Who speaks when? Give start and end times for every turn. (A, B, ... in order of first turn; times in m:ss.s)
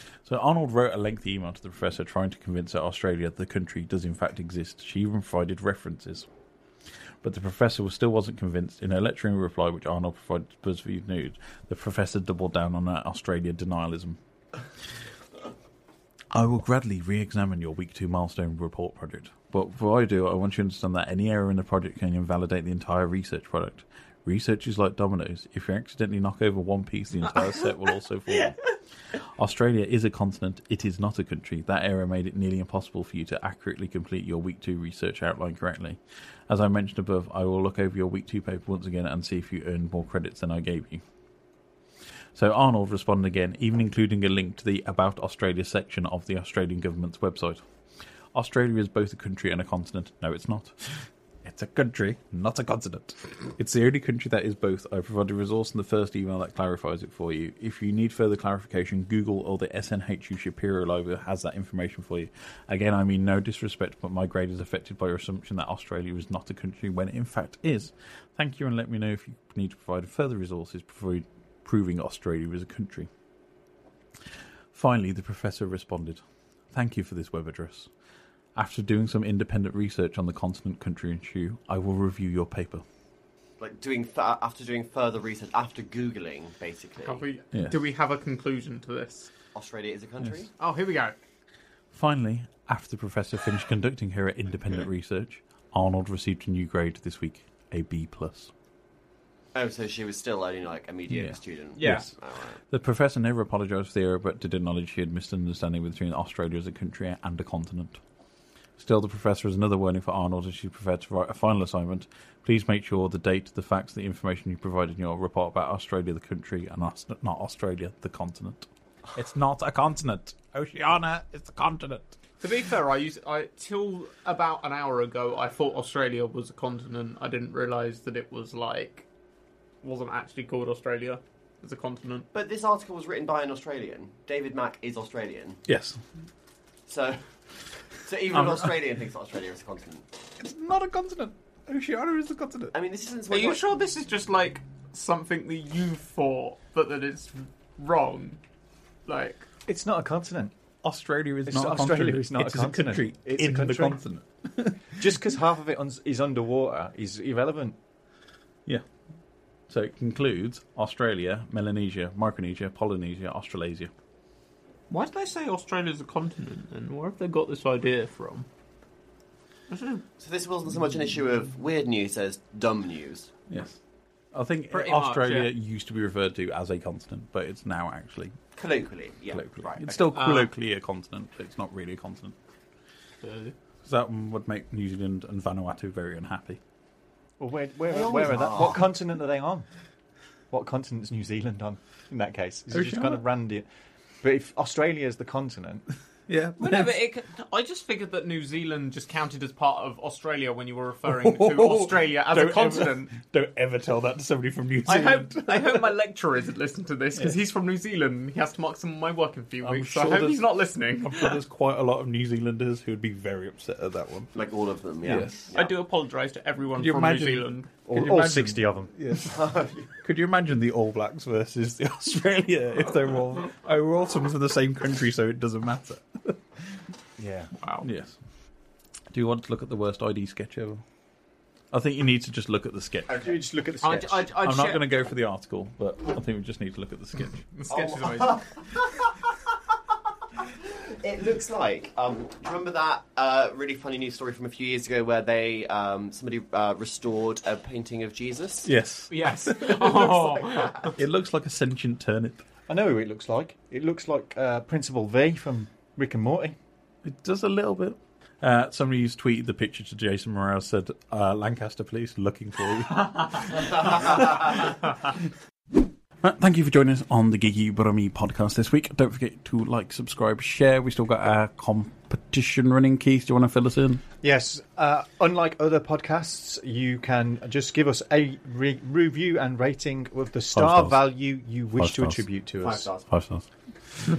0:00.2-0:06.3 A
0:07.2-0:14.2 A
0:16.3-0:28.6 A
0:29.4-0:41.0 A
0:42.3-0:47.6 A
0:48.3-1:13.1 A
1:14.7-1:16.2 A
1:16.7-1:17.9 A
1:18.6-1:22.8 A
1:23.6-1:27.2 B
1:27.0-1:29.3 C
1:29.5-1:30.5 B
1:30.6-1:31.2 C
1:31.9-1:38.5 A
1:39.5-1:42.6 B
1:41.1-1:42.1 A
1:41.8-1:42.0 C
1:42.7-1:48.0 A
1:48.8-2:02.2 A
2:02.4-2:09.0 C
2:09.8-2:12.3 C
2:12.3-2:15.6 B
2:15.6-2:16.0 A
2:16.9-2:17.2 B
2:18.0-2:20.0 B
2:18.3-2:18.7 A
2:20.4-2:22.7 A
2:22.7-2:23.6 B
2:23.3-2:28.4 C
2:29.0-2:29.5 C
2:29.6-2:30.5 D
2:30.8-2:34.9 A
2:31.5-2:34.0 D
2:35.0-2:37.8 D
2:39.7-2:43.9 A
2:44.9-2:48.5 C
2:49.7-2:50.0 C
2:50.2-2:53.3 B
2:53.5-2:53.8 A
2:54.3-2:58.4 A
2:54.7-2:55.5 C
2:58.5-3:00.1 B
2:59.3-3:02.3 A
3:00.1-3:00.5 C
3:03.2-3:03.5 C
3:03.8-3:06.6 A
3:07.4-3:09.6 D
3:07.9-3:08.9 B
3:10.5-3:13.6 D
3:12.7-3:13.2 A
3:14.2-3:15.8 D
3:16.3-3:17.0 A
3:16.6-3:23.1 C
3:21.1-3:25.9 A
3:24.8-3:31.4 C
3:29.6-3:34.3 A
3:34.3-3:35.7 B
3:35.0-3:35.5 A
3:35.5-3:37.7 C
3:36.7-3:39.4 A
3:37.9-3:39.3 D
3:39.3-3:39.9 B
3:40.0-3:46.4 A
3:47.2-3:47.5 D
3:47.8-3:48.2 A
3:49.1-3:50.8 A
3:51.7-3:53.1 A
3:53.1-3:53.4 B
3:53.2-3:54.4 D
3:53.8-3:54.8 C
3:54.4-3:57.4 A
3:57.6-3:58.4 C
3:57.7-3:59.1 B
4:00.9-4:08.7 B
4:08.6-4:10.1 A
4:09.1-4:10.9 C
4:09.9-4:10.9 B
4:10.8-4:12.4 A
4:12.7-4:16.5 D
4:17.0-4:24.7 A
4:26.2-4:34.0 A
4:34.2-4:42.9 D
4:40.5-4:41.1 A
4:41.8-4:42.3 A
4:42.6-4:43.1 B
4:43.0-4:43.4 A